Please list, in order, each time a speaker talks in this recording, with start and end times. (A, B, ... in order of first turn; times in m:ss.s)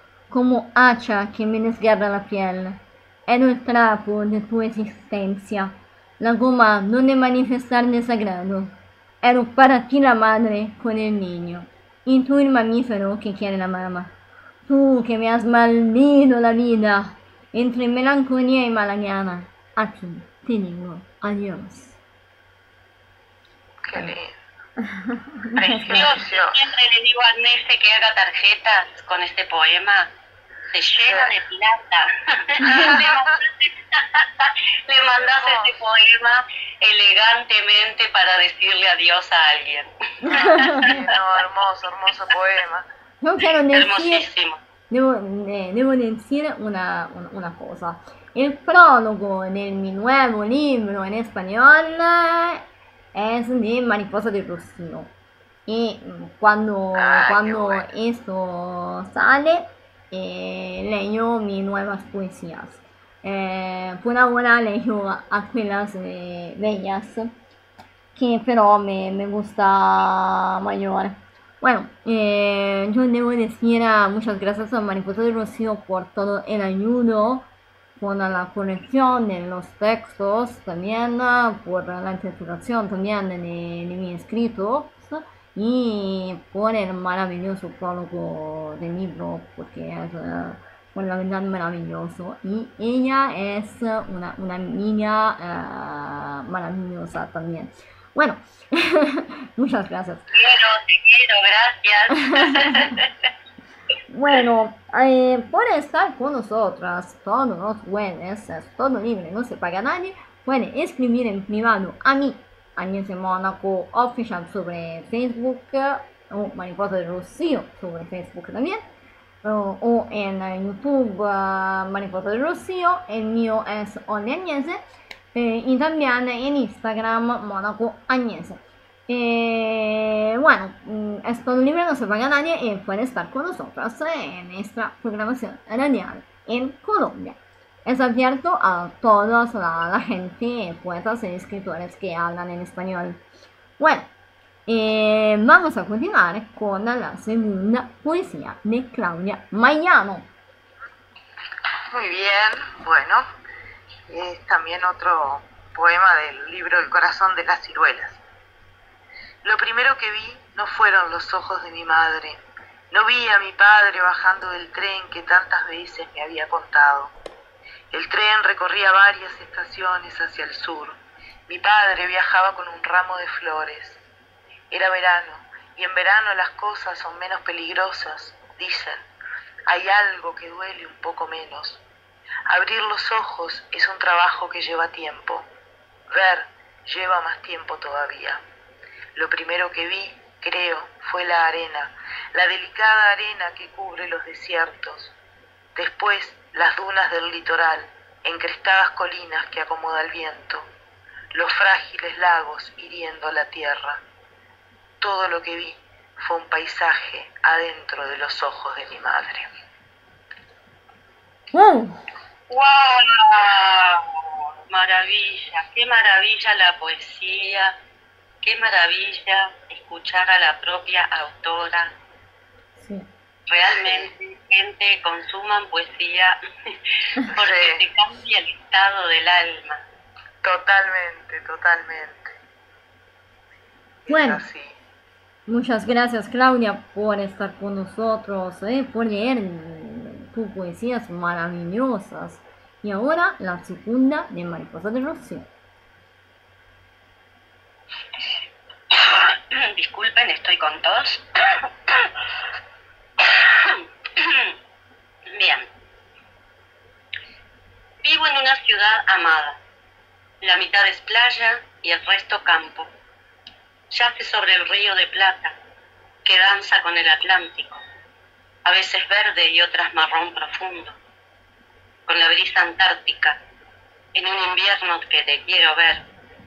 0:00.3-0:14.1 A
0:14.7-0:22.0 A
0:23.8-0:24.3 B
0:24.8-0:26.1 A
0:25.6-0:30.1 C
0:25.9-0:26.6 B
0:30.7-0:41.0 C
0:31.0-0:31.3 B
0:32.7-0:33.2 B
0:35.2-0:35.7 B
0:40.2-0:40.8 A
0:40.3-0:42.8 B
0:43.2-0:44.3 A
0:43.7-0:44.6 C
0:44.9-0:52.6 A
0:53.1-0:55.1 A
0:55.6-1:07.3 A
0:57.0-0:57.9 B
1:08.1-1:40.3 A
1:40.3-1:43.1 C
1:44.1-1:58.8 A
1:59.4-2:04.8 A
2:05.3-2:23.2 A
2:23.8-2:24.1 A
2:24.6-2:30.3 A
2:31.9-2:33.2 B
2:34.1-2:38.2 B
2:39.4-2:47.1 B
2:47.9-2:54.0 B
2:54.7-2:59.0 B
2:59.7-3:01.8 B
3:02.5-3:05.5 B
3:06.1-3:08.4 B
3:09.1-3:15.1 B
3:15.7-3:20.7 B
3:21.3-3:24.0 B
3:25.0-3:29.5 B
3:31.5-3:32.0 A
3:32.5-3:37.7 C
3:38.4-3:41.9 C
3:42.8-3:43.1 A
3:43.5-3:49.8 C
3:43.7-3:44.1 B
3:47.3-3:47.8 B
3:50.4-3:52.3 B
3:54.1-3:54.8 B
3:54.1-3:54.4 A
3:55.5-4:05.4 A
4:08.9-4:11.2 C
4:13.2-4:14.5 C
4:15.3-4:15.7 C
4:18.0-4:19.6 C
4:20.4-4:22.9 C
4:23.9-4:25.5 C
4:26.2-4:27.8 C
4:28.6-4:30.9 C
4:32.1-4:33.4 C
4:34.1-4:36.0 C